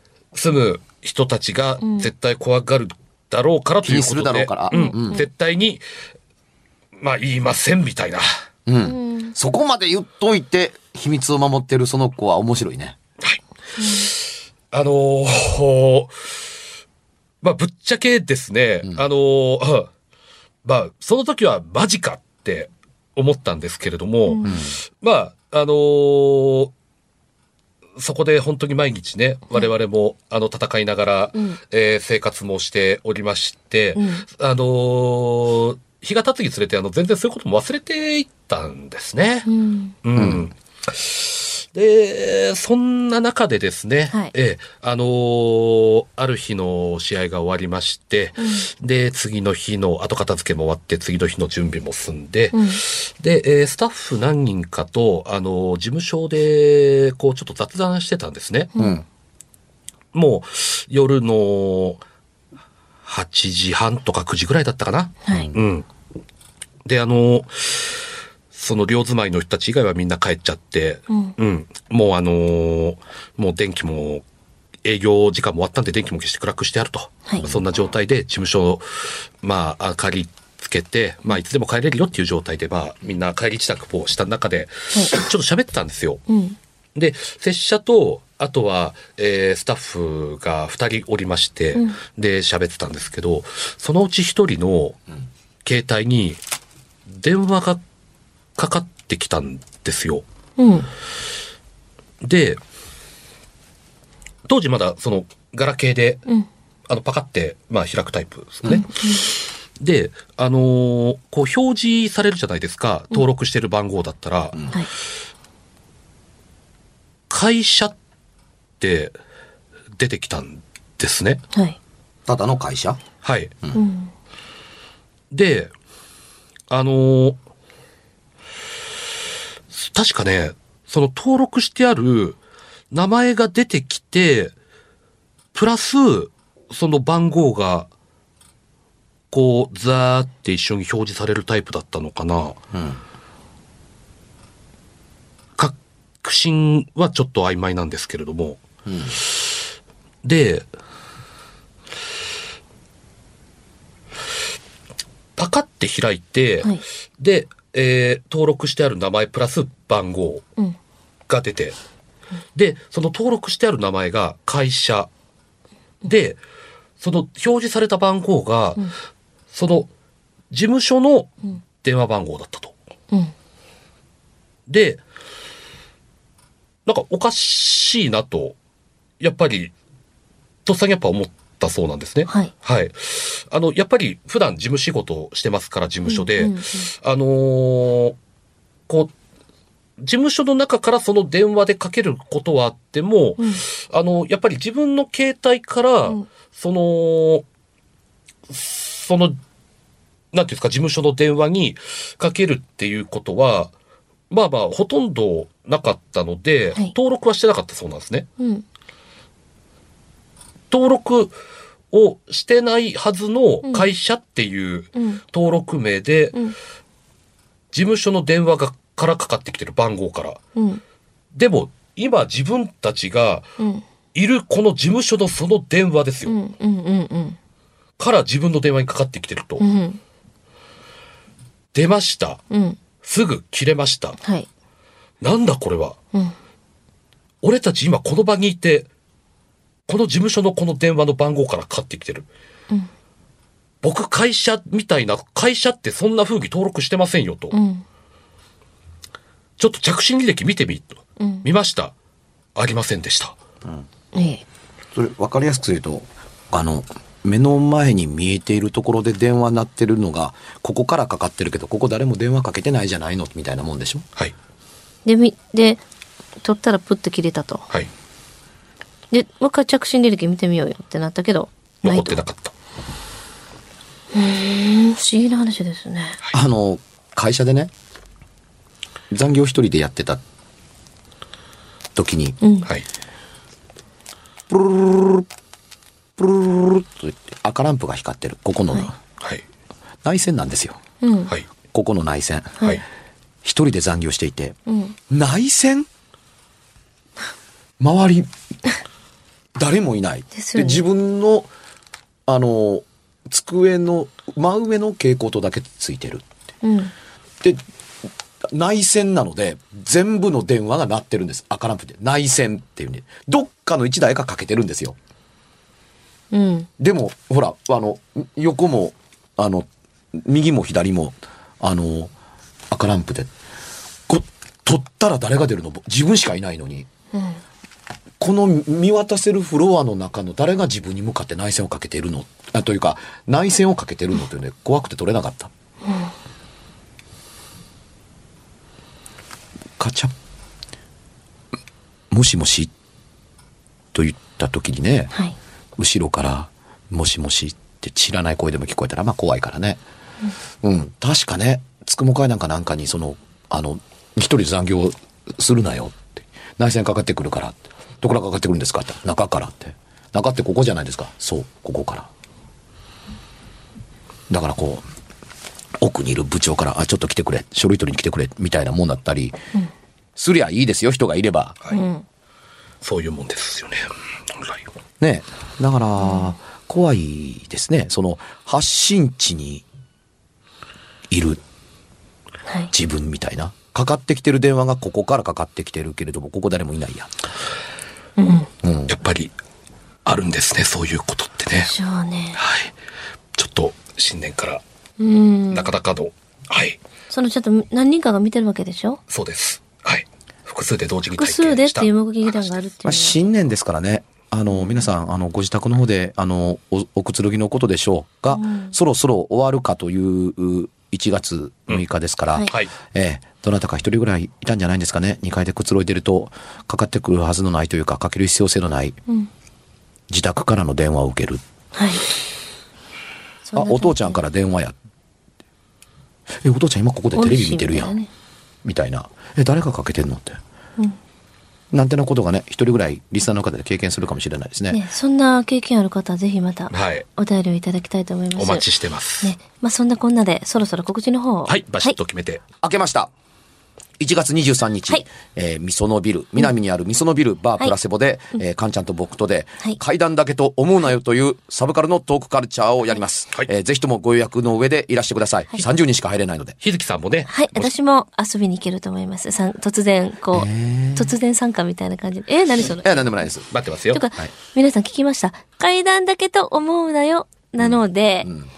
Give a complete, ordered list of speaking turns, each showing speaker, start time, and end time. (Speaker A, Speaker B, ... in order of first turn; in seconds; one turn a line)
Speaker A: 0.3-5.8
Speaker B: 1.8-2.1
Speaker C: 3.8-5.2
Speaker B: 4.7-5.2
Speaker A: 7.0-8.2
Speaker C: 8.7-13.0
Speaker B: 8.8-9.3
Speaker A: 13.2-16.1
Speaker B: 13.8-14.1
Speaker A: 17.4-19.9
Speaker A: 20.6-26.7
Speaker B: 24.2-24.6
Speaker C: 24.4-24.8
Speaker A: 28.0-39.5
Speaker B: 33.9-34.2
Speaker B: 39.5-40.0
Speaker A: 40.0-58.7
Speaker C: 40.1-40.5
Speaker B: 48.4-48.7
Speaker B: 52.5-52.8
Speaker B: 58.7-59.0
Speaker C: 58.8-59.0
Speaker A: 60.1-62.0
Speaker A: 63.0-65.8
Speaker B: 65.2-65.5
Speaker C: 65.3-65.6
Speaker A: 66.8-67.9
Speaker A: 68.5-74.2
Speaker B: 71.1-71.3
Speaker A: 74.8-86.2
Speaker B: 86.3-86.6
Speaker A: 86.9-95.0
Speaker A: 95.6-96.4
Speaker A: 97.1-97.8
Speaker A: 98.5-100.2
Speaker B: 100.6-100.9
Speaker A: 102.2-102.6
Speaker A: 104.5-106.2
Speaker A: 106.9-114.7
Speaker B: 108.7-109.2
Speaker A: 117.3-117.9
Speaker A: 118.8-119.1
Speaker A: 120.0-121.4
Speaker B: 121.5-121.8
Speaker C: 122.3-123.0
Speaker A: 123.2-123.5
Speaker B: 123.7-124.1
Speaker A: 125.3-125.7
Speaker A: 126.7-127.4
Speaker A: 129.7-132.4
Speaker A: 132.9-134.5
Speaker A: 135.5-137.9
Speaker A: 139.3-142.6
Speaker C: 142.7-143.0
Speaker A: 145.6-149.5
Speaker C: 148.8-149.2
Speaker A: 150.2-150.7
Speaker A: 155.4-160.4
Speaker A: 161.3-161.8
Speaker A: 162.5-165.1
Speaker A: 166.0-166.4
Speaker A: 167.0-168.9
Speaker A: 169.5-169.9
Speaker A: 170.5-172.7
Speaker A: 174.7-175.0
Speaker A: 176.8-178.6
Speaker A: 179.2-179.7
Speaker A: 180.7-188.2
Speaker B: 182.3-182.5
Speaker B: 186.1-186.9
Speaker A: 190.0-197.4
Speaker A: 198.5-199.4
Speaker A: 200.3-203.7
Speaker A: 204.3-208.3
Speaker B: 208.4-208.6
Speaker A: 210.7-211.3
Speaker A: 211.9-216.4
Speaker B: 214.9-215.2
Speaker A: 217.7-220.4
Speaker B: 220.6-220.8
Speaker A: 221.3-223.5
Speaker B: 223.6-223.8
Speaker A: 224.1-226.3
Speaker B: 226.2-227.4
Speaker A: 228.0-229.6
Speaker B: 229.6-230.0
Speaker A: 231.7-232.4
Speaker B: 232.5-232.8
Speaker A: 233.0-234.2
Speaker B: 234.2-234.5
Speaker A: 235.2-236.0
Speaker A: 237.4-238.9
Speaker A: 239.9-242.3
Speaker A: 243.8-247.5
Speaker B: 247.5-247.8
Speaker A: 249.6-251.9
Speaker B: 251.2-251.4
Speaker A: 252.6-253.3
Speaker B: 254.1-254.4
Speaker C: 254.9-264.0
Speaker B: 265.0-265.8
Speaker B: 266.4-267.6
Speaker B: 269.1-272.2
Speaker A: 271.8-272.5
Speaker B: 274.1-276.2
Speaker C: 276.3-277.7
Speaker C: 279.1-280.2
Speaker C: 281.9-282.4
Speaker B: 282.4-282.7
Speaker C: 284.5-285.3
Speaker C: 286.2-289.0
Speaker C: 290.0-290.8
Speaker B: 291.0-291.3
Speaker C: 291.7-292.7
Speaker C: 293.4-294.6
Speaker B: 294.7-295.0
Speaker C: 295.1-295.9
Speaker C: 297.8-298.3
Speaker C: 299.5-301.5
Speaker B: 300.3-300.8
Speaker C: 302.3-306.3
Speaker B: 306.6-306.9
Speaker C: 308.4-315.0
Speaker B: 316.3-316.7
Speaker C: 316.8-322.1
Speaker C: 322.7-323.3
Speaker C: 324.1-326.9
Speaker B: 327.1-327.4
Speaker C: 328.2-335.5
Speaker B: 335.8-336.1
Speaker C: 339.8-340.1
Speaker C: 342.1-342.7
Speaker C: 343.9-345.1
Speaker C: 345.8-349.8
Speaker C: 350.6-362.1
Speaker C: 364.3-364.8
Speaker C: 365.8-369.4
Speaker C: 370.1-371.6
Speaker B: 371.7-372.0
Speaker A: 372.8-374.6
Speaker C: 375.0-379.6
Speaker B: 376.0-376.3
Speaker C: 381.1-381.4
Speaker C: 382.7-387.1
Speaker B: 388.2-388.5
Speaker C: 388.6-388.9
Speaker A: 388.9-389.3
Speaker A: 390.0-391.7
Speaker B: 391.6-392.4
Speaker A: 392.4-392.7
Speaker A: 393.4-394.6
Speaker B: 395.0-395.7
Speaker A: 395.5-396.8
Speaker B: 397.1-399.0
Speaker A: 399.1-402.5
Speaker B: 401.1-403.2
Speaker C: 402.8-419.0
Speaker B: 408.3-408.7
Speaker C: 420.1-421.4
Speaker B: 421.7-422.0
Speaker B: 423.4-424.2
Speaker C: 423.5-424.8
Speaker C: 426.4-427.9
Speaker B: 427.1-428.1
Speaker C: 428.6-430.4
Speaker C: 431.7-434.8
Speaker B: 434.7-438.6
Speaker A: 436.7-437.1
Speaker A: 438.4-439.3
Speaker B: 439.2-441.9
Speaker A: 441.5-442.4
Speaker C: 442.6-443.1
Speaker C: 444.0-456.6
Speaker A: 456.6-457.7
Speaker B: 457.3-463.1
Speaker C: 460.3-461.1
Speaker C: 462.6-463.5
Speaker A: 463.5-464.0
Speaker B: 463.9-468.3
Speaker C: 467.6-468.5